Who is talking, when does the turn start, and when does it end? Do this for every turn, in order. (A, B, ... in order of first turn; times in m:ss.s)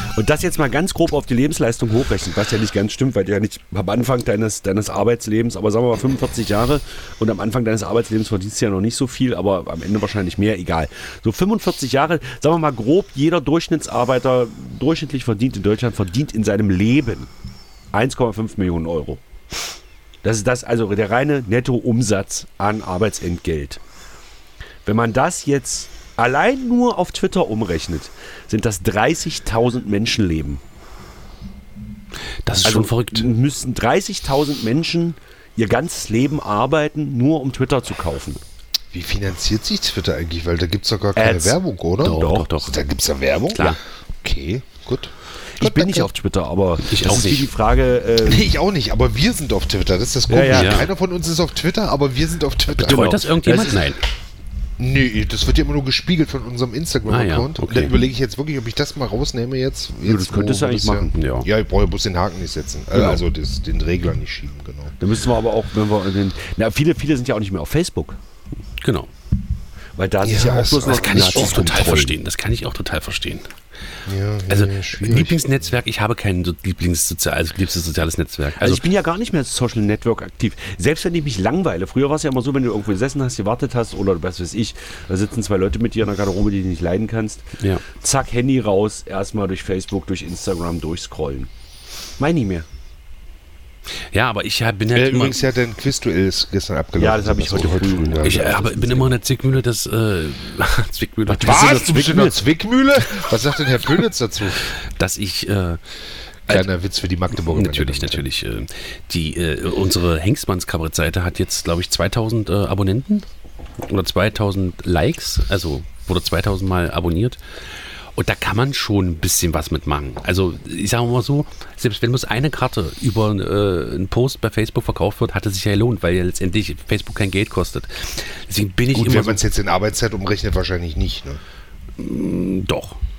0:00.1-0:17.3 A
0:17.9-0:19.2 A
0:20.2-0:23.8 A
0:24.8-0:30.6 A
0:32.4-0:33.3 B
0:32.6-0:38.4 A
0:38.9-0:46.1 C
0:41.2-0:42.5 A
0:42.0-0:42.8 B
0:43.5-0:43.8 B
0:45.6-0:48.5 A
0:46.8-0:47.5 B
0:48.2-0:53.6 C
0:50.3-0:50.9 A
0:50.5-0:50.9 B
0:52.7-0:54.0 B
0:52.9-0:53.8 A
0:54.8-1:05.0 C
0:57.1-0:58.0 B
1:00.0-1:01.2 A
1:01.1-1:01.5 B
1:02.9-1:03.2 A
1:05.0-1:08.2 A
1:08.8-1:09.1 B
1:10.0-1:12.2 A
1:10.2-1:11.7 C
1:10.8-1:13.5 B
1:14.0-1:15.4 C
1:14.5-1:18.8 B
1:18.6-1:31.5 A
1:27.6-1:27.8 B
1:32.2-1:32.6 A
1:34.1-1:35.4 B
1:34.9-1:38.6 C
1:37.0-1:39.1 A
1:38.2-1:42.0 B
1:41.3-1:42.4 A
1:41.4-1:44.7 C
1:44.8-1:45.8 B
1:46.5-1:48.2 C
1:47.3-1:53.3 B
1:53.8-1:57.4 B
1:58.2-2:09.4 B
2:08.9-2:11.4 C
2:12.0-2:13.0 B